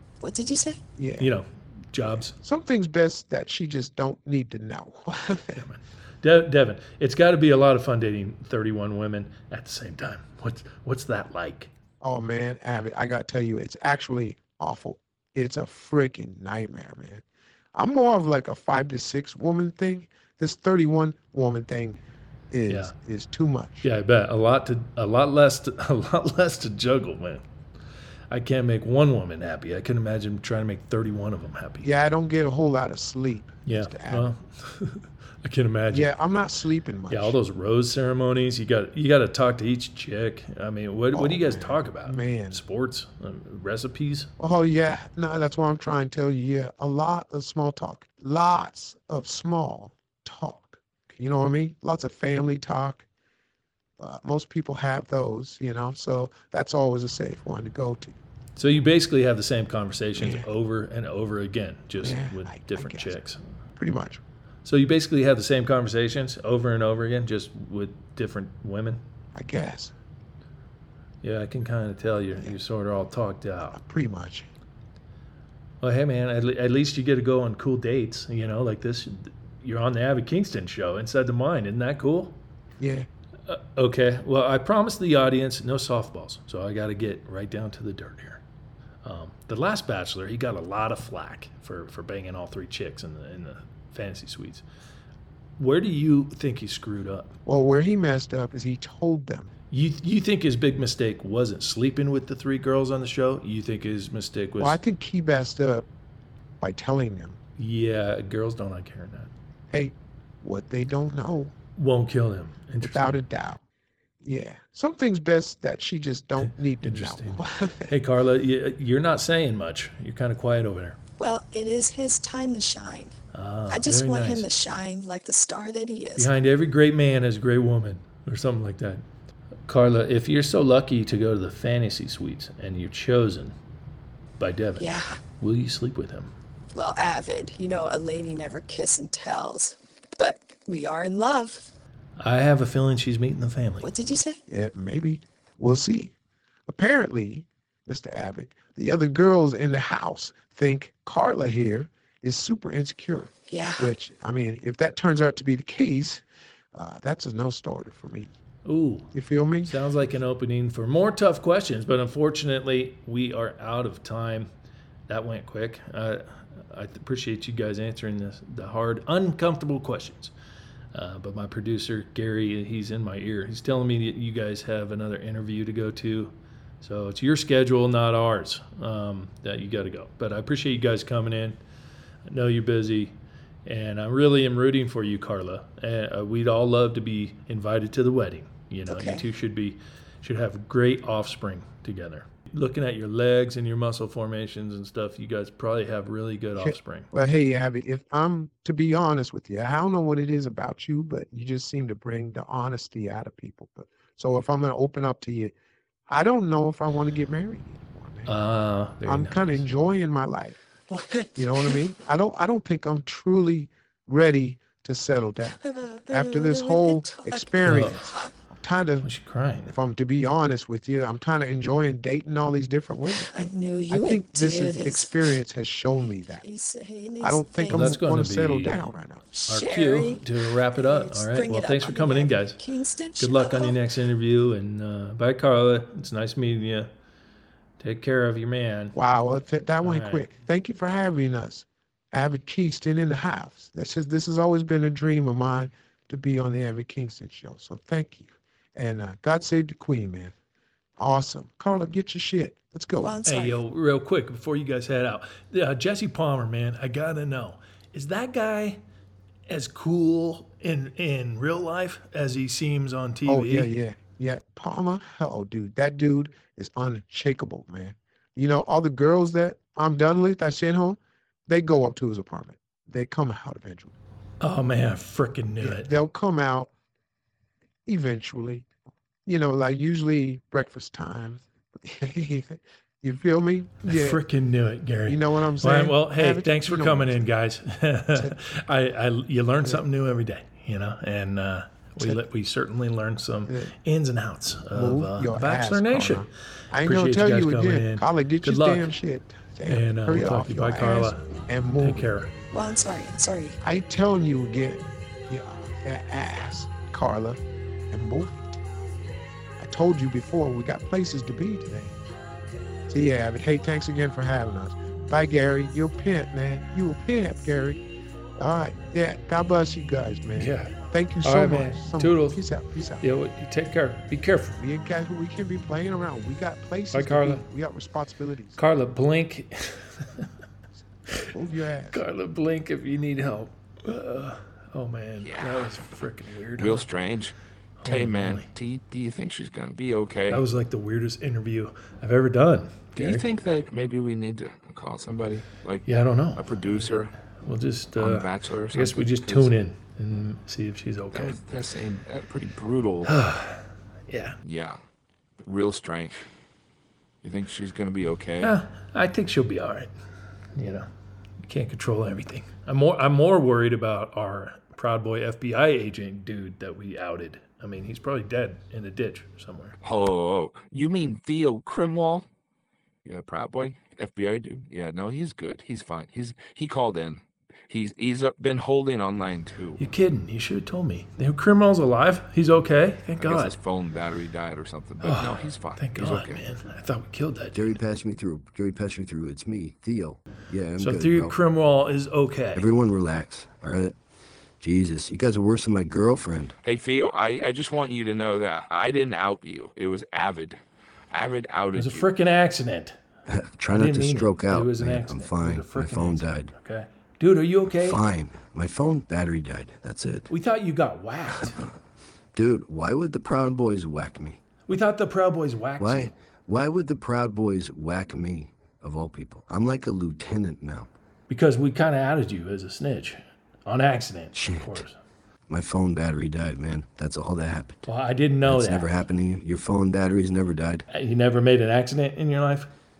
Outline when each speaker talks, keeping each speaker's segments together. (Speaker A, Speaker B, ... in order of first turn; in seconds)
Speaker A: 0.2-0.8, 121.2-123.1, 123.7-126.3, 134.8-135.2, 136.7-141.7, 143.8-144.4, 153.5-153.9, 188.9-189.2, 210.9-211.8, 215.6-218.3, 223.2-225.2, 226.4-227.9, 229.4-233.8, 253.0-253.6, 302.5-303.6
Speaker B: 0.9-1.4, 2.4-5.7, 12.0-23.9, 31.8-34.3, 35.9-37.4, 41.1-42.6, 44.4-53.0, 54.0-58.1, 60.1-60.5, 62.0-63.2, 63.8-64.2, 69.3-69.9, 73.7-74.5, 82.8-83.1, 97.5-99.5, 104.6-105.8, 106.6-107.4, 109.7-111.5, 112.8-113.6, 114.2-117.9, 144.5-146.1, 146.7-156.2, 156.7-158.3, 159.1-159.8, 196.6-205.5, 206.1-208.3, 209.1-210.6, 211.3-219.1, 219.7-223.3, 223.9-226.4, 227.2-229.4, 238.9-250.3, 251.0-253.1, 263.3-273.9, 275.6-276.7, 277.9-278.7, 279.2-284.2, 285.1-287.3, 293.4-293.7, 294.7-302.1, 303.6-308.6, 309.6-312.0, 312.9-317.8, 318.4-323.1, 324.6-328.6, 331.3-332.0
Speaker C: 1.2-2.4, 5.5-11.7, 22.7-22.9, 23.8-27.4, 28.3-31.9, 33.6-36.1, 37.1-44.3, 58.5-63.4, 64.6-69.0, 71.2-73.8, 75.8-82.4, 83.5-88.4, 89.0-94.6, 95.6-97.3, 99.7-104.8, 107.6-109.3, 111.8-113.2, 116.4-121.0, 123.3-124.5, 126.2-129.0, 129.7-133.5, 134.4-136.3, 142.2-143.9, 158.6-159.1, 159.6-164.5, 165.1-170.3, 170.9-181.6, 182.2-197.1, 208.2-209.7, 217.6-218.0, 219.0-219.8, 227.7-228.8, 229.5-232.6, 233.2-236.9, 237.8-238.9, 239.8-240.3, 253.2-258.8, 259.5-263.7, 274.4-275.9, 283.8-296.3, 296.8-298.9, 299.6-301.2, 301.8-302.3, 320.4-322.4, 323.0-324.6, 326.9-327.4, 328.6-330.3, 331.9-336.8, 337.8-338.5, 340.3-343.2, 345.8-346.8, 347.4-351.4, 353.1-354.4, 358.4-359.9, 360.5-360.9, 361.4-369.8, 379.8-383.6, 385.0-387.8, 390.8-392.7, 401.7-403.0, 403.7-408.0, 410.3-411.6, 414.6-416.1, 421.3-425.0, 427.8-428.9, 430.9-432.7
Speaker D: 335.2-335.8, 336.6-340.4, 342.9-347.1, 348.0-349.5, 351.1-353.1, 354.4-354.8, 355.4-356.2, 357.2-358.5, 369.8-372.2, 373.0-379.9, 383.2-386.4, 396.6-400.6, 401.1-402.1
Speaker E: 387.5-391.4, 392.5-393.9, 394.6-396.5, 403.3-406.5, 407.7-410.3, 412.3-414.4, 415.8-420.9, 424.3-424.8, 425.5-427.8, 428.4-430.8